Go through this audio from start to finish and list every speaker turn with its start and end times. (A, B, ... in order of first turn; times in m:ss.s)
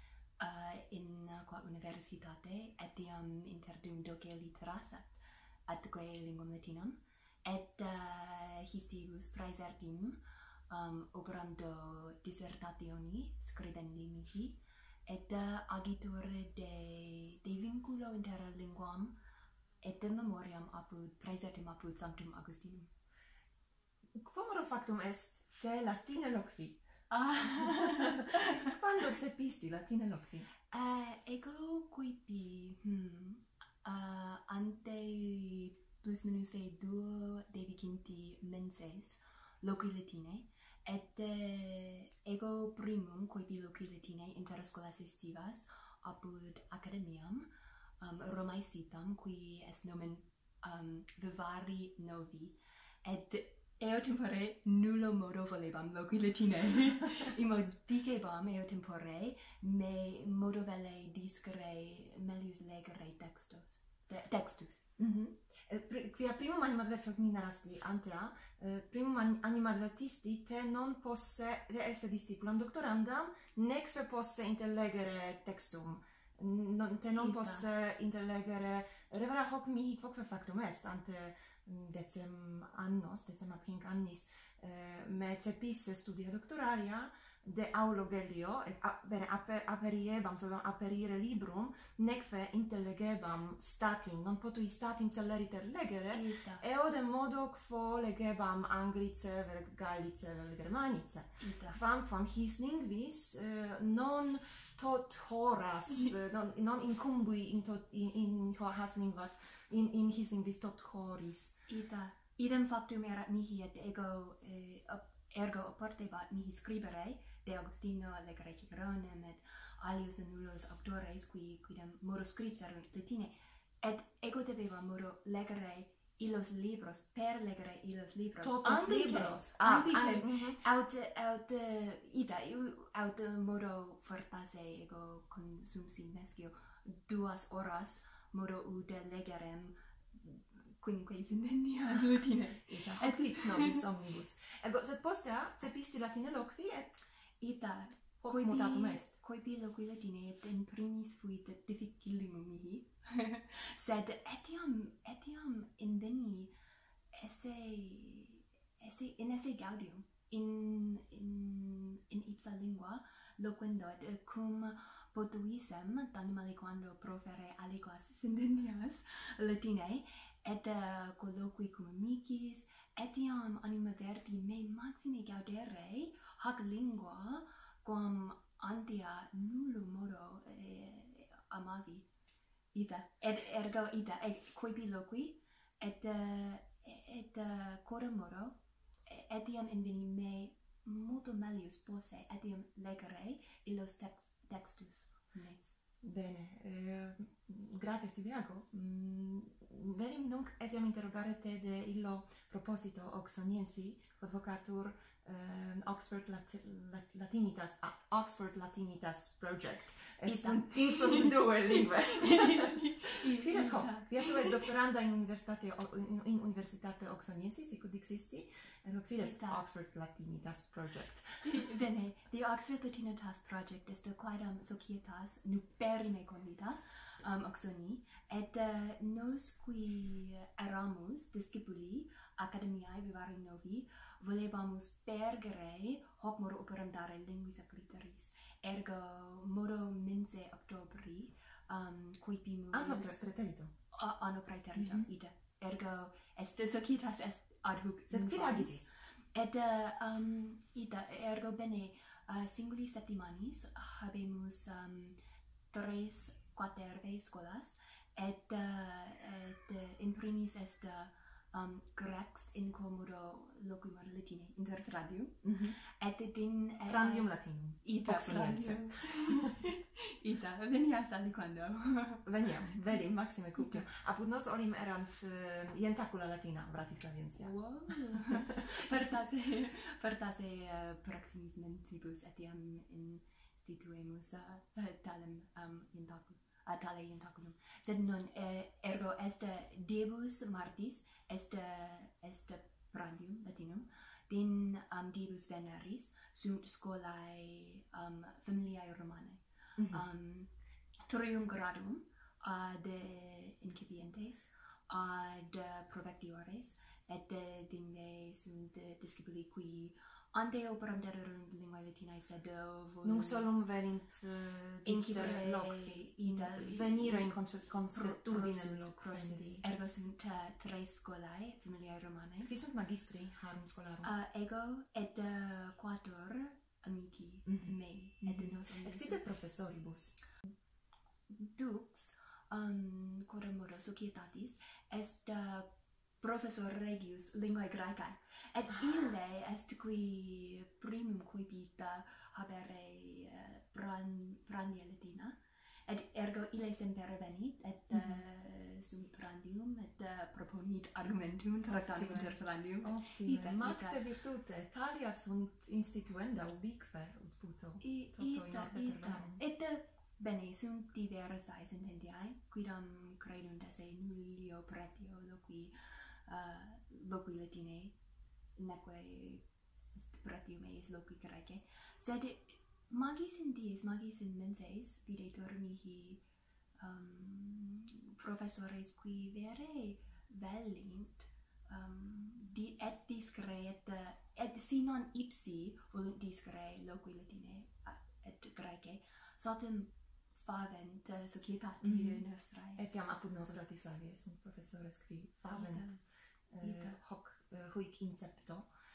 0:00.4-0:19.2 A
0:19.8-0:22.9 A
0:24.2-0:26.8 B
0:27.1-0:28.8 A
0:27.5-0:30.5 B
0:30.7-1:05.0 A
1:05.0-1:51.6 B
1:17.2-1:17.7 A
1:36.1-1:36.6 A
1:41.4-1:41.8 A
1:51.7-2:23.9 A
2:08.4-2:10.6 B
2:22.7-2:27.1 B
2:27.4-2:36.6 A
2:28.2-2:29.2 B
2:37.1-3:02.1 A
3:02.7-3:15.8 A
3:16.0-3:41.5 B
3:30.2-3:34.7 A
3:39.2-3:39.6 A
3:41.4-4:03.2 A
4:02.7-4:03.7 B
4:03.9-4:15.2 A
4:04.8-4:05.1 B
4:08.1-4:09.0 B
4:15.7-4:32.5 A
4:25.4-4:25.8 B
4:26.9-4:29.6 B
4:32.2-4:37.6 B
4:33.6-4:33.9 A
4:37.4-5:00.5 A
5:01.1-5:13.5 A
5:13.0-5:19.6 B
5:14.8-5:17.4 A
5:17.9-5:22.5 A
5:22.4-5:24.1 B
5:24.0-5:29.2 A
5:27.5-5:30.2 B
5:31.3-5:54.0 A
5:51.8-5:59.4 B
5:57.8-6:08.0 A
6:08.6-6:16.2 A
6:16.8-6:32.8 A
6:31.8-6:32.2 B
6:32.8-6:36.0 B
6:35.5-6:36.0 A
6:36.5-6:38.7 B
6:36.6-6:37.0 A